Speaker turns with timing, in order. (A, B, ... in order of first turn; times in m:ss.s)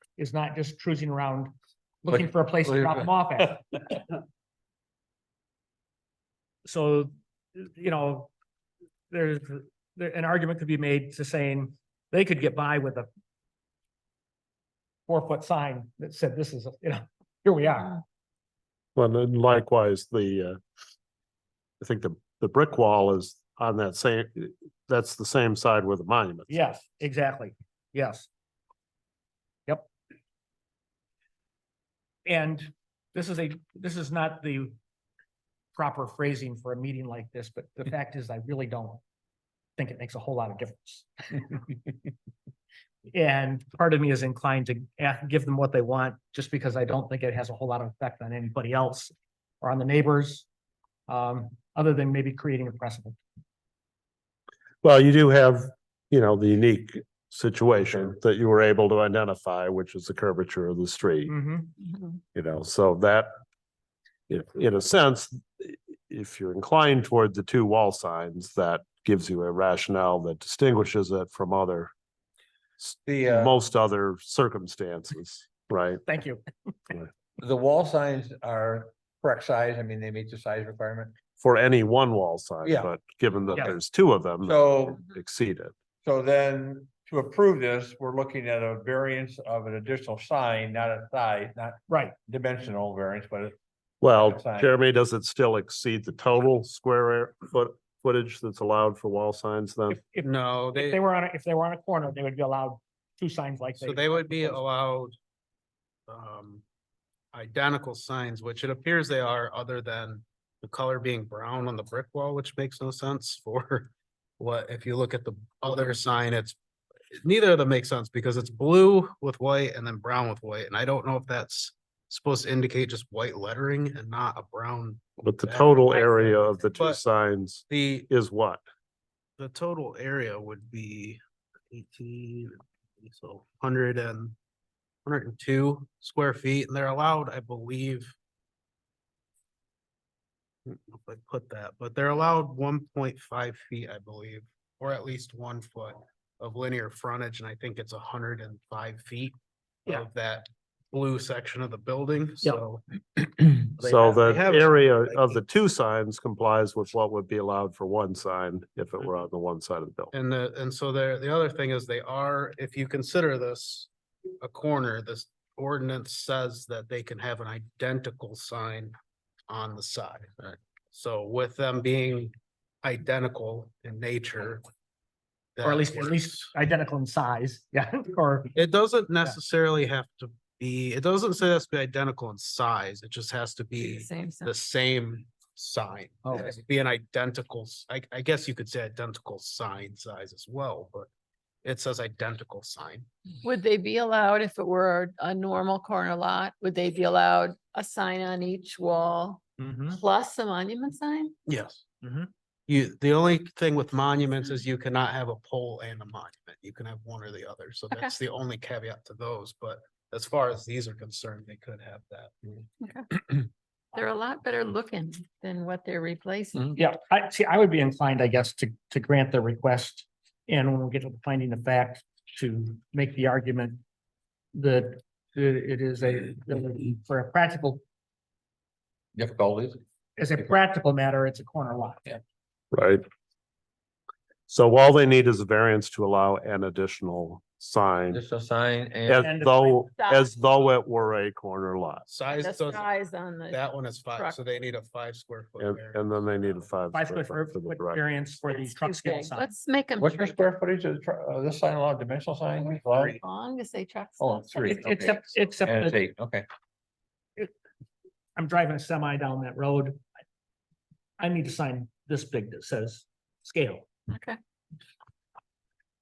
0:00.2-0:01.5 A
0:02.0-0:03.7 A
0:02.1-0:04.0 B
0:06.7-0:08.3 A
0:09.1-0:13.1 A
0:15.1-0:18.0 A
0:19.0-0:20.6 C
0:21.8-0:26.6 C
0:26.5-0:28.3 A
0:32.3-0:34.8 A
0:35.8-0:39.0 A
0:39.8-0:41.6 A
0:43.1-0:50.5 A
0:51.1-0:53.2 A
0:54.8-1:01.3 C
1:01.3-1:01.7 A
1:01.8-1:02.2 D
1:02.4-1:03.3 C
1:04.3-1:11.9 C
1:12.8-1:16.0 C
1:13.0-1:13.6 B
1:16.1-1:17.0 A
1:17.4-1:21.2 B
1:21.4-1:25.7 C
1:22.6-1:22.9 B
1:24.4-1:25.0 B
1:26.0-1:33.6 B
1:31.9-1:32.2 A
1:34.0-1:40.0 C
1:34.1-1:34.7 B
1:39.9-1:44.6 A
1:40.2-1:41.0 E
1:43.8-1:45.2 E
1:46.1-1:46.6 E
1:47.3-1:56.6 E
1:57.1-2:06.2 E
2:05.2-2:08.6 C
2:07.7-2:08.1 E
2:09.4-2:11.2 E
2:11.7-2:14.4 E
2:15.0-2:18.2 E
2:20.7-2:35.4 E
2:33.8-2:40.2 C
2:40.1-2:43.9 E
2:44.4-2:49.0 E
2:49.5-2:54.6 E
2:55.6-2:56.5 E
2:55.6-2:58.6 A
2:58.6-3:11.1 E
3:03.8-3:04.5 D
3:06.2-3:06.6 A
3:11.6-3:13.1 E
3:13.4-3:21.4 D
3:19.6-3:20.0 A
3:21.5-3:21.8 E
3:22.0-3:22.3 A
3:22.7-3:32.6 E
3:32.8-3:33.1 D
3:33.9-3:36.8 D
3:36.8-3:43.8 A
3:44.5-3:47.8 A
3:49.2-3:49.8 B
3:50.2-3:52.2 A
3:52.7-3:53.0 C
3:54.5-3:58.2 C
3:58.1-3:59.3 B
3:59.1-4:02.1 C
3:59.2-3:59.8 A
4:00.0-4:00.5 D
4:02.1-4:02.9 E
4:02.3-4:04.4 D
4:03.5-4:06.7 E
4:05.6-4:08.0 C
4:06.9-4:09.5 A
4:08.6-4:10.4 D
4:10.0-4:13.2 B
4:12.6-4:15.0 D
4:14.2-4:16.5 B
4:14.6-4:16.0 A
4:18.4-4:20.0 A
4:21.2-4:23.9 A
4:24.1-4:24.4 D